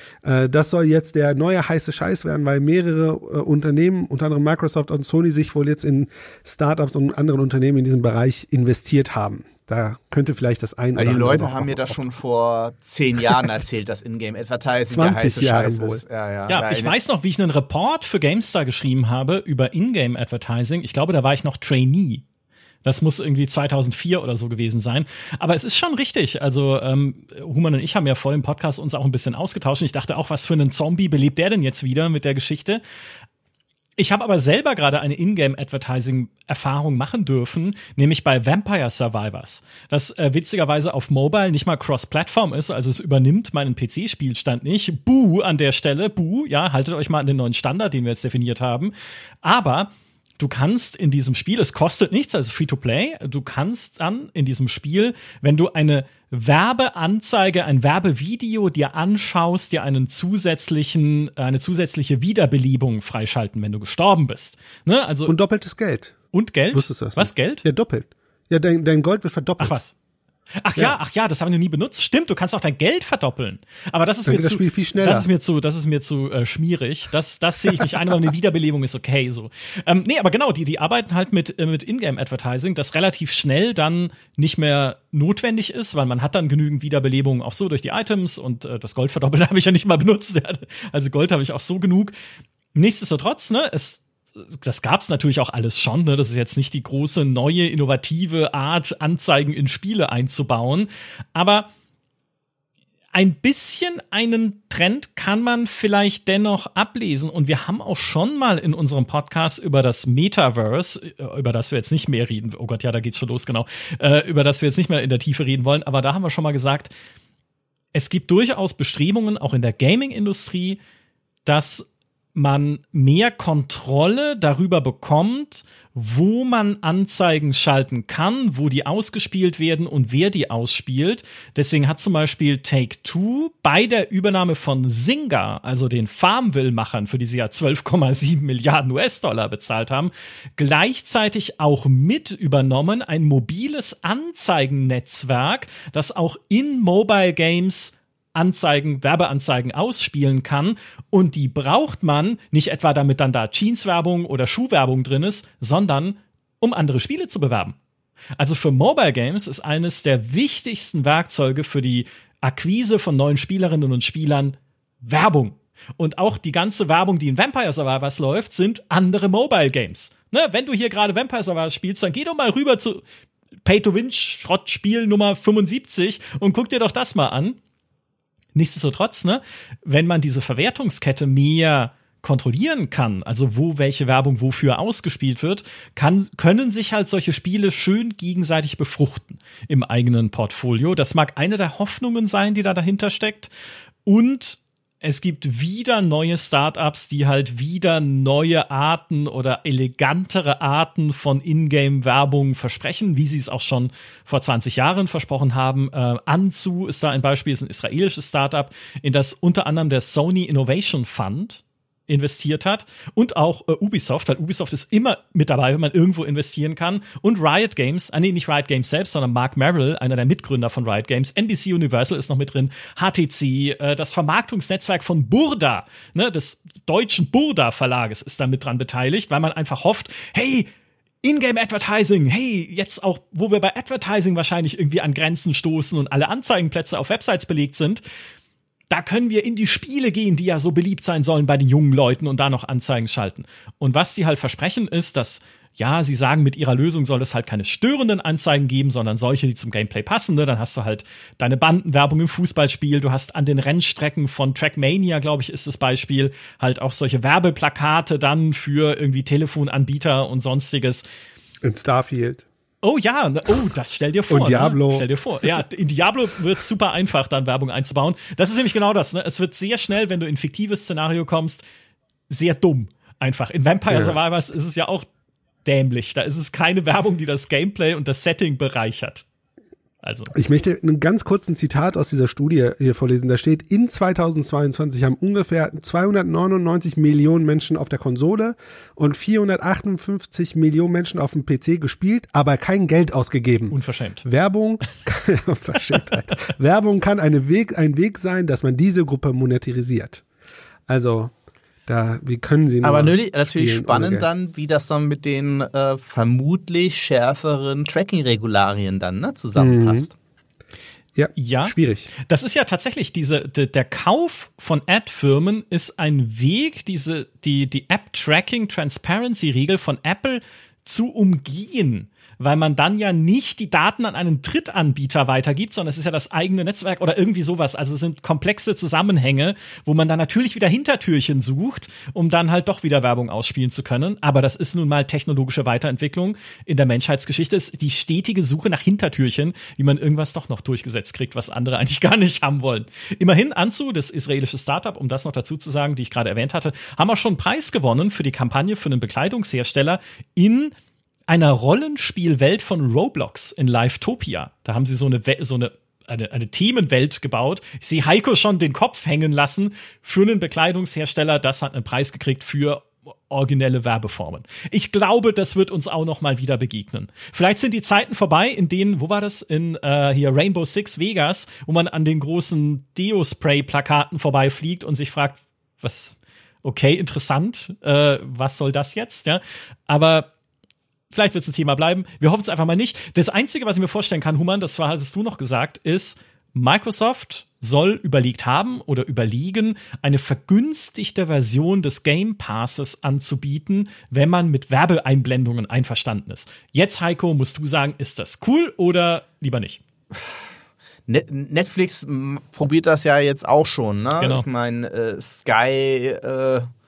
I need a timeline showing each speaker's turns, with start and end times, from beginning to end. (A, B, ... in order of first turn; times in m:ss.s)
0:00.2-0:12.0 A
0:11.0-0:16.9 B
0:14.9-0:16.0 A
0:16.5-0:22.2 C
0:22.8-0:32.8 C
0:34.0-1:05.4 C
1:05.3-1:06.2 A
1:06.3-1:07.6 C
1:06.7-1:09.8 A
1:09.6-1:10.0 C
1:10.6-1:32.1 C
1:14.3-1:15.3 A
1:17.7-1:18.0 A
1:32.8-1:41.7 C
1:43.1-1:56.9 C
1:57.9-2:00.8 C
2:01.4-2:37.8 C
2:38.4-2:53.0 C
2:53.6-2:57.6 C
2:58.6-3:13.5 C
3:14.1-3:50.7 C
3:51.2-3:58.0 C
3:58.9-4:21.0 C
4:21.6-4:22.4 A
4:22.8-4:31.6 C
4:24.3-4:25.1 A
4:32.3-4:35.1 C
4:33.9-4:34.2 A
4:35.6-4:39.2 C
4:40.0-4:40.3 C
4:40.3-5:00.2 A
4:53.7-4:54.2 C
5:00.9-5:01.3 A
5:01.9-5:04.3 A
5:02.8-5:10.2 B
5:09.6-5:10.1 A
5:11.2-5:12.1 A
5:11.4-5:50.7 C
5:51.3-6:20.3 C
6:21.1-6:39.8 C
6:40.1-6:40.4 B
6:41.1-6:46.7 B
6:44.2-6:44.5 C